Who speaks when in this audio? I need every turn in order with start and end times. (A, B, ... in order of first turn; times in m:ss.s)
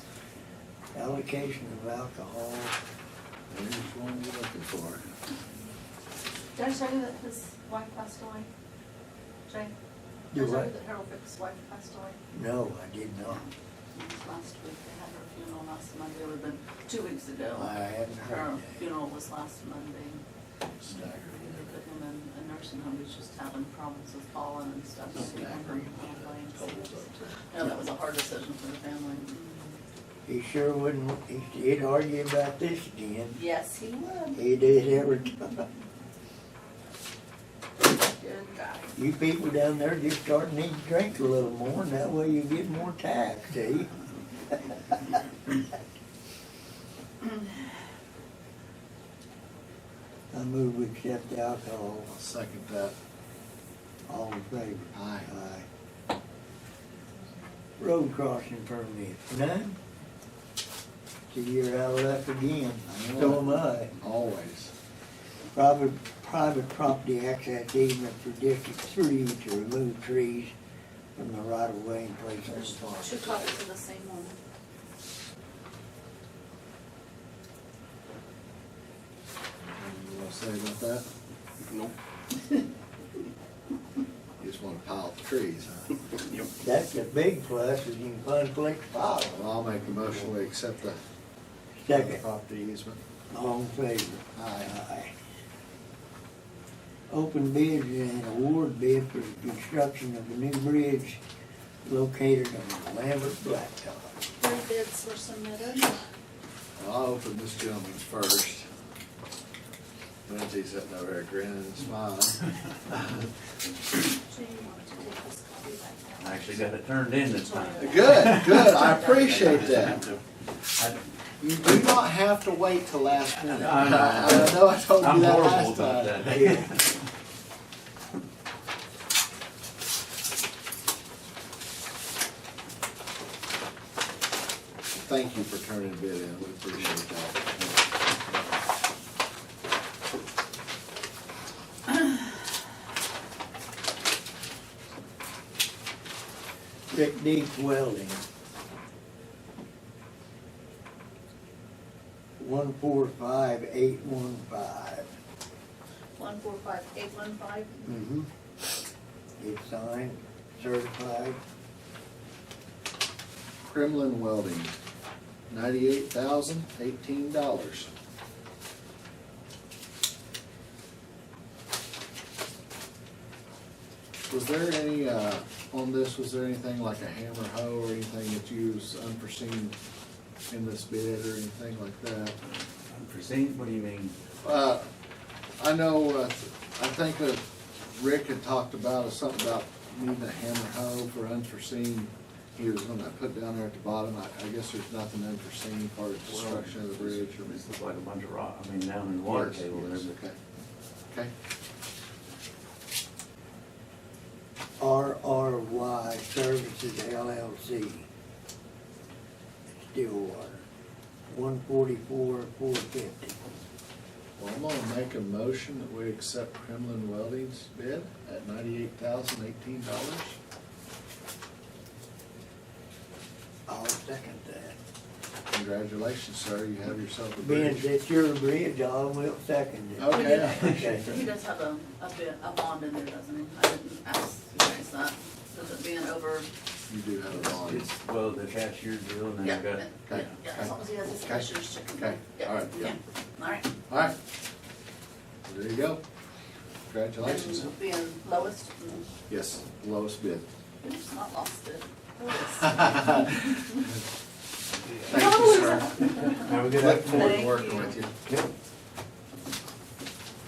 0:00.9-0:02.8 A
0:03.5-0:05.1 B
0:06.6-0:08.5 C
0:09.5-0:09.7 C
0:10.3-0:10.7 A
0:10.3-0:12.2 C
0:12.3-0:13.4 A
0:13.2-0:20.2 C
0:17.6-0:18.8 A
0:20.8-0:21.7 B
0:21.0-0:29.8 C
0:25.2-0:27.2 B
0:30.3-0:33.4 A
0:33.3-0:34.4 C
0:34.3-0:35.6 A
0:38.1-0:39.0 C
0:39.0-0:44.0 A
0:50.3-0:52.1 A
0:52.1-0:53.0 B
0:54.1-0:55.7 A
0:54.9-0:55.3 B
0:57.8-0:59.8 A
1:01.3-1:03.9 A
1:02.8-1:04.7 B
1:05.5-1:10.5 A
1:11.2-1:12.7 A
1:12.5-1:13.5 B
1:12.9-1:14.4 C
1:19.8-1:21.1 B
1:24.4-1:25.9 B
1:26.6-1:29.4 A
1:29.3-1:31.0 B
1:31.8-1:32.2 A
1:31.9-1:33.0 B
1:33.3-1:35.1 A
1:34.4-1:34.7 B
1:37.1-1:41.2 A
1:41.8-1:44.2 A
1:44.4-1:46.0 C
1:46.8-1:48.7 B
1:50.3-1:53.0 B
1:53.9-1:56.6 C
1:56.2-2:00.2 D
1:57.2-1:59.7 C
1:57.8-2:00.1 B
2:01.4-2:06.6 B
2:03.4-2:07.0 D
2:14.9-2:17.7 B
2:26.9-2:28.2 A
2:32.4-2:35.1 A
2:36.2-2:37.9 C
2:37.8-2:38.3 A
2:39.4-2:41.4 A
2:43.6-2:44.8 B
2:45.5-2:47.9 B
2:54.3-2:59.8 B
3:00.5-3:02.4 B
3:02.9-3:04.2 D
3:04.4-3:04.9 B
3:05.6-3:17.6 B
3:16.2-3:20.1 D
3:19.2-3:20.4 B
3:24.8-3:28.0 A
3:29.8-3:30.6 A
3:31.3-3:33.4 A
3:34.4-3:40.4 B
3:43.7-3:44.8 A
3:45.5-3:47.9 B
3:47.4-3:51.2 A
3:50.0-3:50.7 B
3:50.1-3:56.5 C
3:50.6-3:51.0 D
3:56.9-3:57.9 B
3:57.4-4:00.2 D
3:59.4-4:03.8 C
4:00.1-4:03.0 B
4:03.9-4:04.2 B
4:05.4-4:06.0 B
4:06.9-4:07.7 B
4:07.2-4:09.1 C
4:09.3-4:10.5 B
4:10.8-4:13.8 C
4:12.9-4:13.5 B
4:15.0-4:15.4 D
4:15.0-4:18.2 B
4:15.1-4:18.0 C
4:16.0-4:17.4 D